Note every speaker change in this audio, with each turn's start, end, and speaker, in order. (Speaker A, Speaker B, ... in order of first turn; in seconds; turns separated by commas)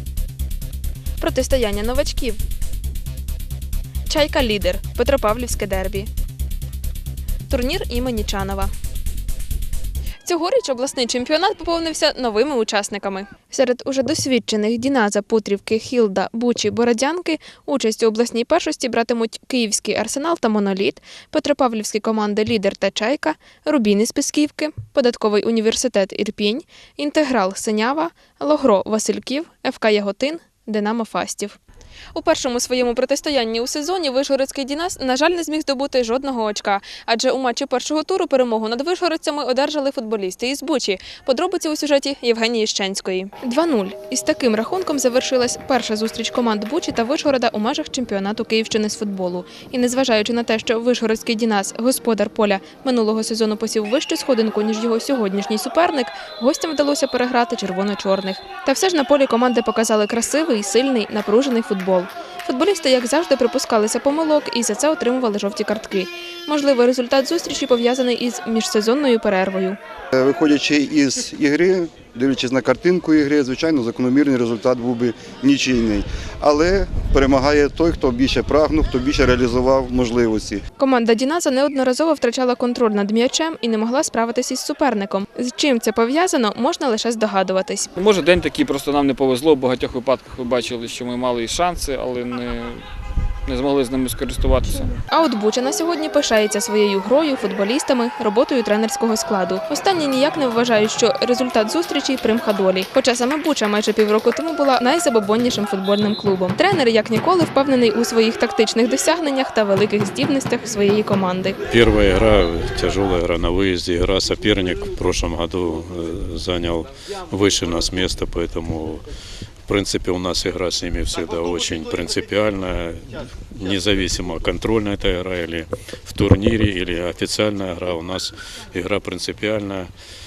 Speaker A: 1.2-2.4, Speaker A: 4.0-6.1, Speaker A: 7.5-8.7, Speaker A: 10.2-31.6, Speaker A: 32.1-69.8, Speaker B: 70.1-80.6, Speaker A: 80.8-87.9, Speaker C: 88.0-92.8, Speaker C: 93.5-95.0, Speaker A: 95.1-111.6, Speaker D: 111.7-119.0, Speaker D: 119.7-129.9